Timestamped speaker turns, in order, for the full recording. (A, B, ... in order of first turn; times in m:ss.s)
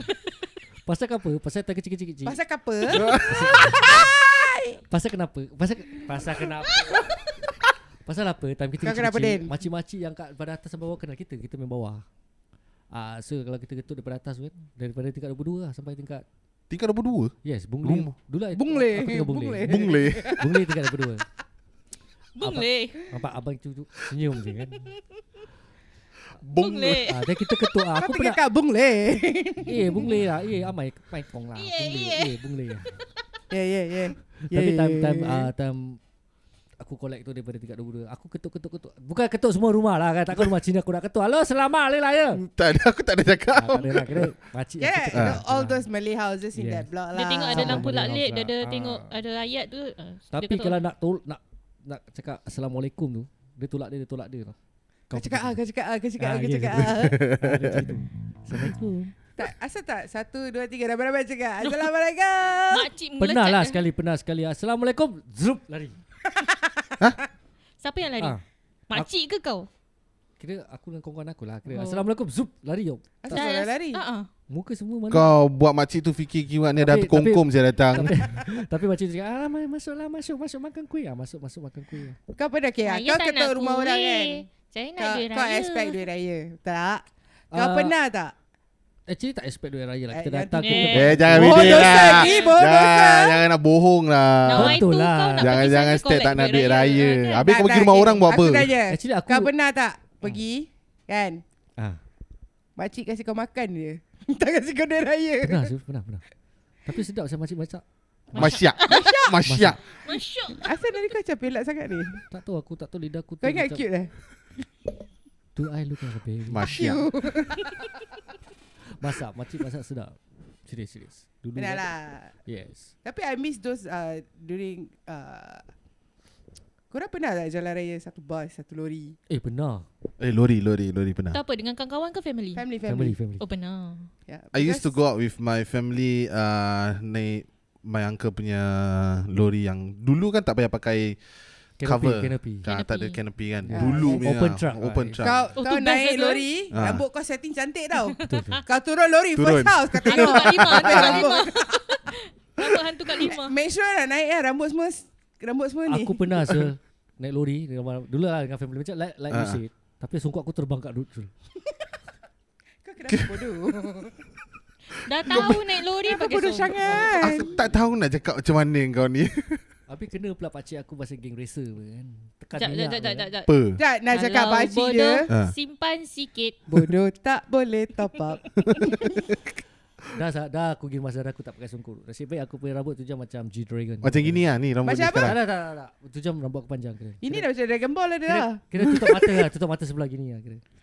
0:00.8-0:02.4 A
0:02.2-0:04.8 B
0:02.9-0:03.4 C
0:02.9-0:04.0 A
0:04.9-0:07.0 A
0:08.0-0:12.0 A
0:08.8-0:09.5 B
0:12.9-0:16.2 A
0:16.7-0:18.1 C
0:17.4-0:21.2 A
0:18.5-0:20.7 B
0:19.6-0:20.4 C
0:22.3-0:23.0 D
0:22.4-0:24.8 A
0:26.4-0:27.1 C
0:26.6-0:27.2 D
0:27.0-0:28.4 A
0:28.0-0:30.1 B
0:29.6-0:32.9 A
0:31.6-0:32.3 D
0:33.5-0:35.5 B
0:34.4-0:36.0 A
0:36.8-0:42.4 A
0:42.4-0:44.3 C
0:43.5-0:45.8 A
0:44.8-0:47.9 B
0:45.1-0:45.4 C
0:46.5-0:46.9 A
0:47.1-0:50.8 D
0:47.5-0:49.1 A
0:50.3-0:54.5 A
0:55.1-0:55.6 A
0:55.1-0:57.2 B
0:56.2-0:59.1 A
0:56.7-0:57.7 C
0:59.4-1:02.9 B
1:02.7-1:03.8 D
1:03.2-1:06.0 A
1:07.8-1:08.3 D
1:08.2-1:09.1 A
1:08.9-1:09.7 D
1:10.4-1:13.4 A
1:11.7-1:12.0 D
1:13.2-1:14.0 B
1:13.3-1:14.3 D
1:14.5-1:15.3 A
1:15.1-1:18.1 C
1:16.8-1:22.2 A
1:22.3-1:24.4 B
1:22.8-1:26.0 D
1:25.0-1:28.3 B
1:27.5-1:27.9 A
1:29.1-1:32.2 A
1:30.1-1:33.4 B
1:30.6-1:32.6 D
1:30.9-1:38.7 C
1:34.4-1:37.5 D
1:34.5-1:35.6 A
1:37.4-1:41.4 B
1:38.9-1:39.5 A
1:42.8-1:45.7 B
1:45.4-1:46.2 A
1:46.8-1:48.6 A
1:48.3-1:49.8 C
1:48.4-1:49.0 D
1:48.4-1:49.4 B
1:49.4-1:49.8 A
1:49.9-1:51.1 D
1:50.5-1:52.2 B
1:52.3-1:53.8 A
1:53.4-1:54.1 B
1:55.6-1:56.8 A
1:56.5-1:57.1 C
1:56.7-1:57.8 B
1:58.8-2:01.9 A
2:01.5-2:02.3 B
2:02.4-2:02.9 A
2:03.0-2:05.6 B
2:06.9-2:09.2 B
2:09.3-2:09.9 A
2:10.2-2:11.4 C
2:11.3-2:12.6 D
2:12.5-2:13.2 B
2:12.9-2:13.4 A
2:13.4-2:14.1 D
2:14.3-2:14.9 B
2:14.5-2:21.2 C
2:21.8-2:22.6 A
2:21.8-2:25.4 C
2:22.6-2:23.2 D
2:23.6-2:25.4 A
2:23.7-2:24.3 B
2:25.2-2:31.8 B
2:25.6-2:26.5 D
2:26.7-2:27.0 C
2:27.9-2:28.6 D
2:28.2-2:28.6 A
2:29.4-2:31.3 C
2:30.0-2:33.5 D
2:33.1-2:36.5 B
2:35.8-2:41.3 A
2:39.3-2:39.6 C
2:42.8-2:44.2 B
2:43.1-2:43.4 C
2:44.9-2:47.0 D
2:45.2-2:45.6 C
2:45.3-2:47.5 B
2:46.8-2:47.7 A
2:47.2-2:49.6 C
2:49.9-2:53.3 A
2:52.6-2:53.6 D
2:53.5-2:53.8 C
2:53.8-2:55.3 B
2:54.1-2:56.6 D
2:56.7-2:59.3 B
2:58.6-2:59.0 C
3:00.1-3:04.4 A
3:04.0-3:05.4 C
3:04.8-3:05.4 B
3:05.2-3:07.5 A
3:07.2-3:08.6 B
3:08.2-3:10.6 A